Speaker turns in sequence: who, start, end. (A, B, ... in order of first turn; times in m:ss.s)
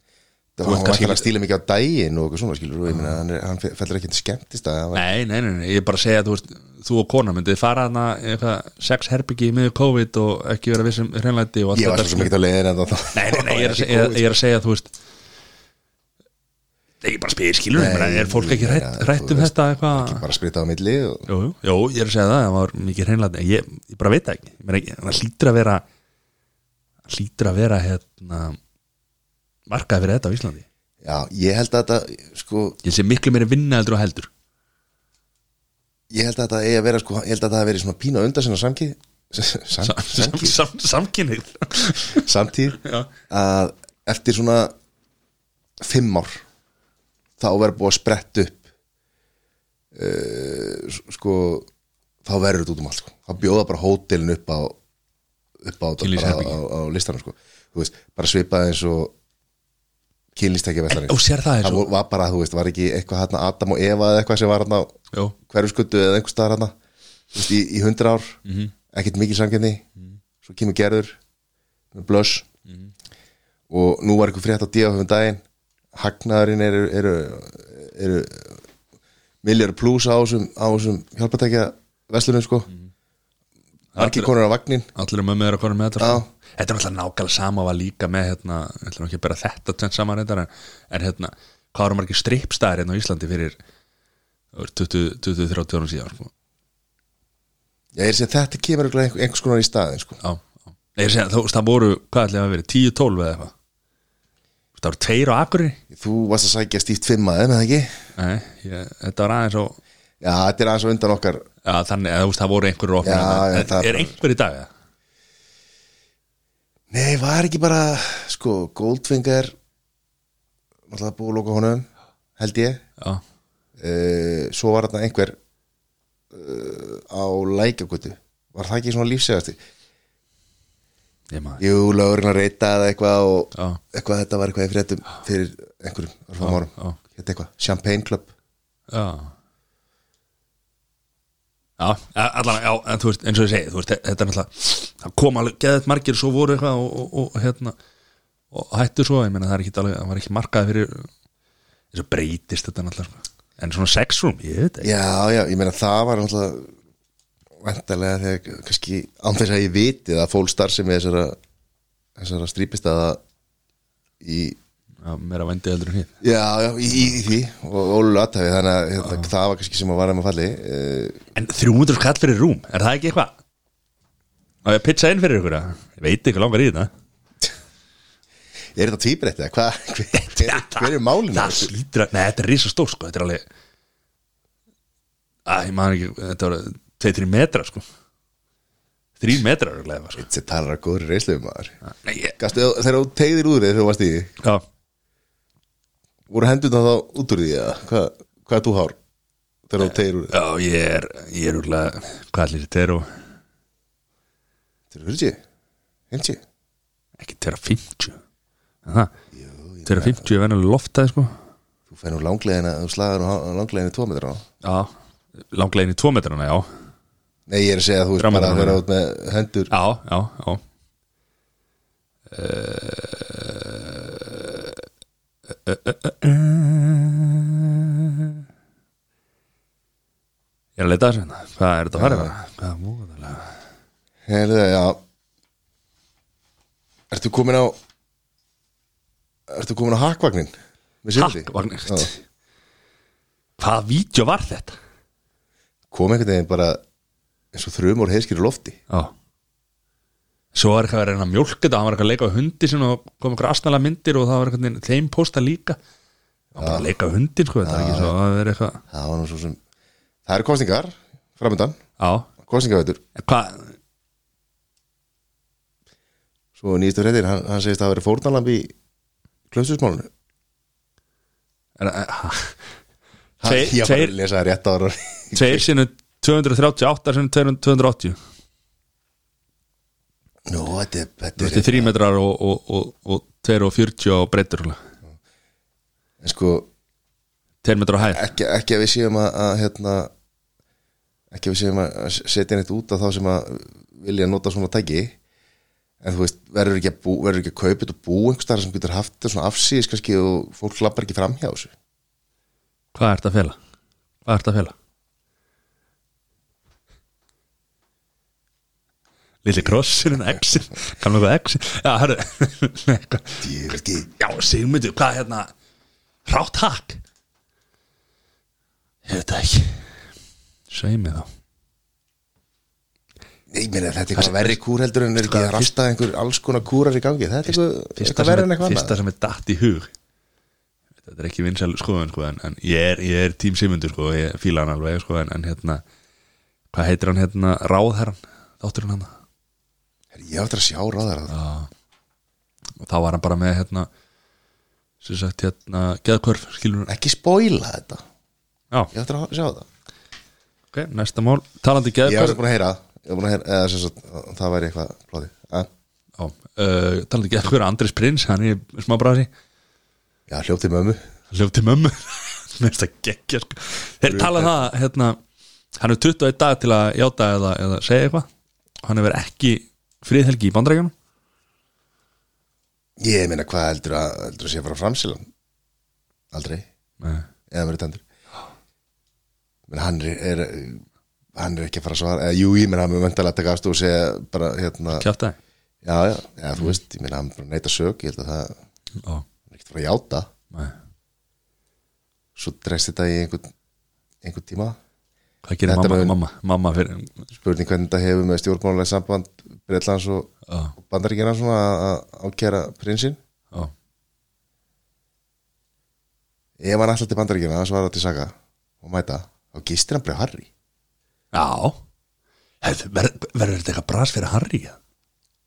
0:00.6-0:05.0 A
0:00.6-0:01.3 B
0:04.9-0:12.3 B
0:11.7-0:14.3 A
0:13.1-0:14.9 B
0:17.0-0:20.2 B
0:17.7-0:21.3 A
0:21.3-0:25.8 B
0:27.1-0:28.6 B
0:29.7-0:30.6 B
0:31.0-0:32.8 A
0:32.8-0:34.3 B
0:36.1-0:40.6 A
0:39.8-0:42.2 B
0:42.1-0:44.7 A
0:42.8-0:43.1 B
0:45.8-0:46.4 A
0:47.4-0:48.6 A
0:49.9-0:51.7 A
0:52.2-0:54.8 A
0:55.6-0:59.1 A
0:56.0-0:56.6 B
1:00.3-1:06.7 A
1:00.9-1:01.9 B
1:07.3-1:08.4 A
1:08.4-1:08.7 B
1:08.9-1:09.8 A
1:10.4-1:11.2 A
1:11.9-1:12.5 A
1:13.7-1:15.4 A
1:15.9-1:18.6 A
1:19.4-1:22.7 A
1:23.9-1:24.3 B
1:24.0-1:24.9 A
1:24.9-1:33.6 B
1:26.0-1:26.2 A
1:34.5-1:36.3 B
1:37.9-1:40.2 A
1:40.2-1:43.5 B
1:44.8-1:45.8 B
1:45.9-1:48.0 A
1:48.2-1:49.8 B
1:50.2-1:51.4 A
1:51.6-1:54.7 B
1:53.0-1:54.2 A
1:56.9-1:59.5 A
2:00.9-2:01.9 A
2:02.4-2:02.8 A
2:03.8-2:05.4 A
2:06.3-2:09.6 A
2:11.3-2:11.6 B
2:11.6-2:18.3 A
2:16.4-2:17.0 B
2:18.9-2:19.3 B
2:21.8-2:27.8 B
2:28.5-2:31.1 B
2:31.9-2:34.9 B
2:34.8-2:36.7 A
2:37.6-2:41.4 A
2:42.2-2:43.2 A
2:44.2-2:44.6 A
2:45.0-2:46.1 B
2:46.2-2:51.2 A
2:51.3-2:53.3 B
2:54.6-2:56.9 B
2:58.7-3:01.7 A
3:00.2-3:03.4 B
3:05.4-3:07.8 B
3:09.2-3:10.2 B
3:10.2-3:11.8 A
3:11.9-3:12.3 B
3:12.4-3:14.3 A
3:16.3-3:19.0 A
3:19.7-3:20.3 A
3:19.8-3:23.1 B
3:24.9-3:25.4 A
3:26.1-3:26.4 A
3:27.2-3:28.2 B
3:28.8-3:29.1 B
3:29.3-3:30.2 A
3:29.8-3:31.4 B
3:31.9-3:34.4 A
3:34.6-3:36.7 B
3:37.5-3:39.7 A
3:38.2-3:38.8 B
3:39.7-3:40.6 B
3:42.3-3:44.8 B
3:45.6-3:48.4 B
3:50.8-3:53.5 B
3:51.9-3:52.3 A
3:54.3-3:55.0 A
3:57.1-3:57.8 A
3:59.5-4:02.1 A
4:01.1-4:02.2 B
4:03.6-4:04.8 B
4:05.9-4:06.8 A
4:07.5-4:08.8 A
4:10.5-4:15.8 B
4:16.5-4:16.9 A
4:16.6-4:18.8 B
4:17.6-4:18.1 A
4:18.9-4:19.6 A
4:20.2-4:21.8 A
4:22.0-4:22.3 B
4:22.4-4:23.0 A
4:23.1-4:23.7 B
4:26.6-4:28.7 A
4:29.5-4:30.1 A
4:31.8-4:32.6 B
4:33.4-4:35.7 A
4:33.4-4:34.1 B
4:35.3-4:38.2 B
4:40.5-4:41.9 A
4:41.4-4:44.8 B
4:46.2-4:46.7 A
4:47.6-4:48.3 B
4:48.1-4:50.1 A
4:51.3-4:55.2 A
4:56.0-5:01.7 A
5:02.9-5:03.6 B
5:04.2-5:04.7 B
5:09.4-5:13.4 B
5:13.4-5:14.1 A
5:14.2-5:15.5 B
5:16.2-5:17.0 B
5:19.0-5:19.9 B
5:20.7-5:21.3 B
5:23.5-5:29.0 A
5:24.2-5:24.6 B
5:25.2-5:25.7 B
5:27.5-5:29.9 B
5:31.0-5:35.8 B
5:36.7-5:39.2 B
5:40.1-5:41.3 A
5:41.3-5:41.7 B
5:42.8-5:43.9 B
5:45.0-5:46.9 B
5:46.9-5:48.0 A
5:48.9-5:49.7 A
5:50.7-5:52.4 B
5:52.0-5:55.7 A
5:56.2-5:59.3 B
6:00.3-6:01.0 A
6:01.3-6:05.2 B
6:04.0-6:04.5 A
6:05.8-6:08.2 B
6:08.8-6:10.9 B
6:13.0-6:15.3 A
6:16.3-6:16.6 A
6:17.0-6:17.3 B
6:17.5-6:18.0 A
6:19.7-6:20.8 A
6:21.3-6:25.0 A
6:24.9-6:25.4 B
6:25.8-6:28.6 A
6:29.5-6:30.3 A
6:30.5-6:30.8 B
6:32.4-6:33.5 A
6:34.2-6:34.8 A
6:35.4-6:37.2 B
6:35.6-6:36.2 A
6:37.3-6:43.2 A
6:40.5-6:40.7 B
6:46.6-6:50.5 A
6:51.3-6:51.8 B
6:52.6-6:54.8 B